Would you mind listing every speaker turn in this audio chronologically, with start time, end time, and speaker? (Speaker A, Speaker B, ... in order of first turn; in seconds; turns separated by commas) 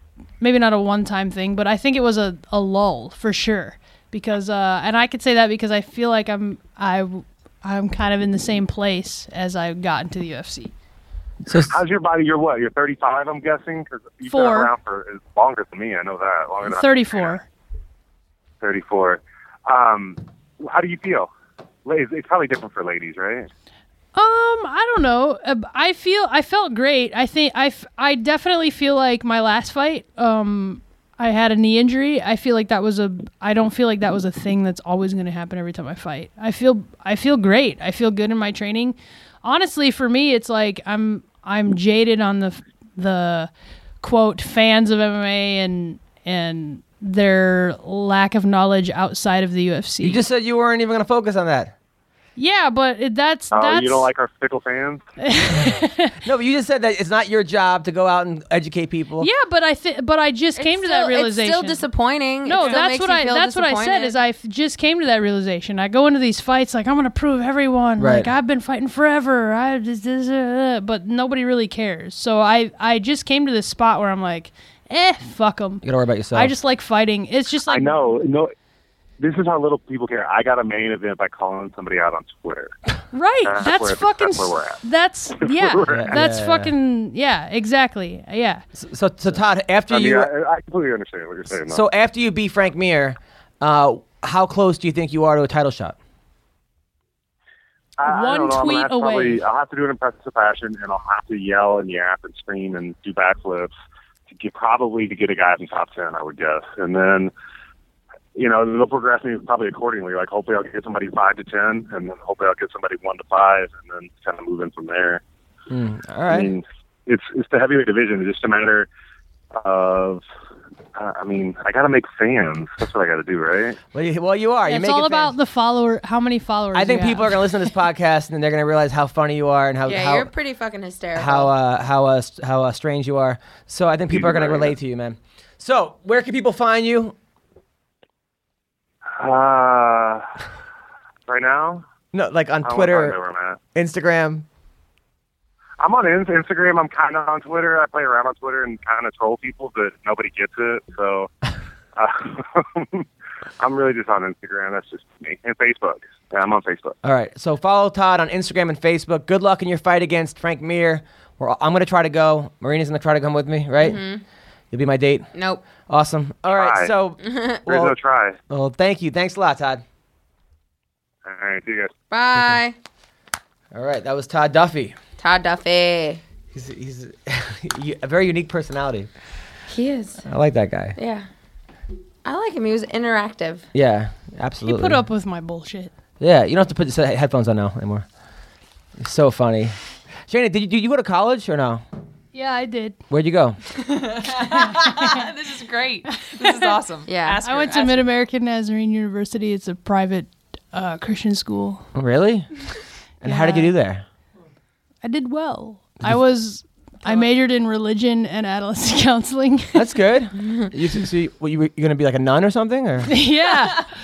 Speaker A: 0.4-10.7, Speaker B: 11.5-11.7, Speaker C: 11.6-17.4, Speaker A: 14.3-14.7, Speaker A: 16.6-17.5, Speaker C: 18.6-21.3, Speaker C: 21.8-23.5, Speaker A: 24.1-43.5, Speaker A: 44.0-50.2, Speaker B: 50.0-51.7, Speaker A: 52.4-54.1, Speaker C: 53.5-55.0, Speaker A: 55.2-56.2, Speaker B: 56.2-59.3, Speaker A: 59.2-61.8, Speaker D: 60.5-64.2, Speaker A: 62.4-78.0, Speaker B: 68.0-68.3, Speaker B: 75.8-76.5, Speaker C: 77.7-78.5, Speaker C: 79.2-82.7, Speaker A: 83.1-88.6, Speaker C: 83.4-84.8, Speaker C: 85.4-86.2, Speaker B: 85.9-86.7, Speaker B: 88.8-90.3, Speaker C: 89.9-91.8, Speaker B: 91.7-96.0, Speaker C: 98.0-103.7, Speaker A: 98.0-99.4, Speaker C: 104.3-107.3, Speaker C: 108.3-115.2, Speaker B: 115.7-116.5, Speaker C: 116.3-118.9, Speaker C: 119.5-120.2, Speaker C: 121.0-123.8, Speaker B: 123.9-125.3, Speaker A: 124.7-127.7, Speaker B: 126.7-130.3, Speaker D: 129.8-131.5, Speaker B: 131.1-137.1, Speaker C: 134.1-134.7, Speaker C: 139.1-140.2, Speaker C: 141.3-141.8, Speaker B: 142.1-143.2, Speaker C: 142.6-143.6, Speaker B: 143.7-144.4, Speaker C: 145.8-151.3, Speaker C: 151.9-153.1, Speaker C: 153.6-157.0, Speaker B: 157.0-164.0, Speaker D: 163.8-164.2, Speaker B: 164.7-165.3, Speaker D: 165.3-165.6, Speaker B: 165.9-167.9, Speaker C: 166.5-166.9, Speaker D: 167.2-167.6, Speaker C: 167.7-168.4, Speaker B: 168.5-169.8, Speaker C: 171.2-171.9, Speaker D: 172.1-172.8, Speaker B: 173.7-174.9, Speaker D: 175.2-176.2, Speaker B: 176.5-179.1, Speaker D: 179.7-180.2, Speaker B: 180.2-180.9, Speaker D: 180.9-181.3, Speaker D: 182.2-183.7, Speaker B: 183.7-185.0, Speaker A: 184.6-185.9, Speaker B: 186.2-188.1, Speaker B: 189.0-189.8, Speaker B: 190.3-191.8, Speaker A: 192.3-193.0, Speaker B: 193.1-193.6, Speaker E: 193.8-198.0, Speaker A: 194.5-195.2, Speaker A: 196.2-196.5, Speaker D: 197.1-197.4, Speaker A: 197.4-201.8, Speaker B: 201.9-202.6, Speaker B: 203.2-204.0, Speaker A: 203.2-203.7, Speaker A: 205.0-209.8, Speaker B: 209.7-213.2, Speaker A: 213.1-213.9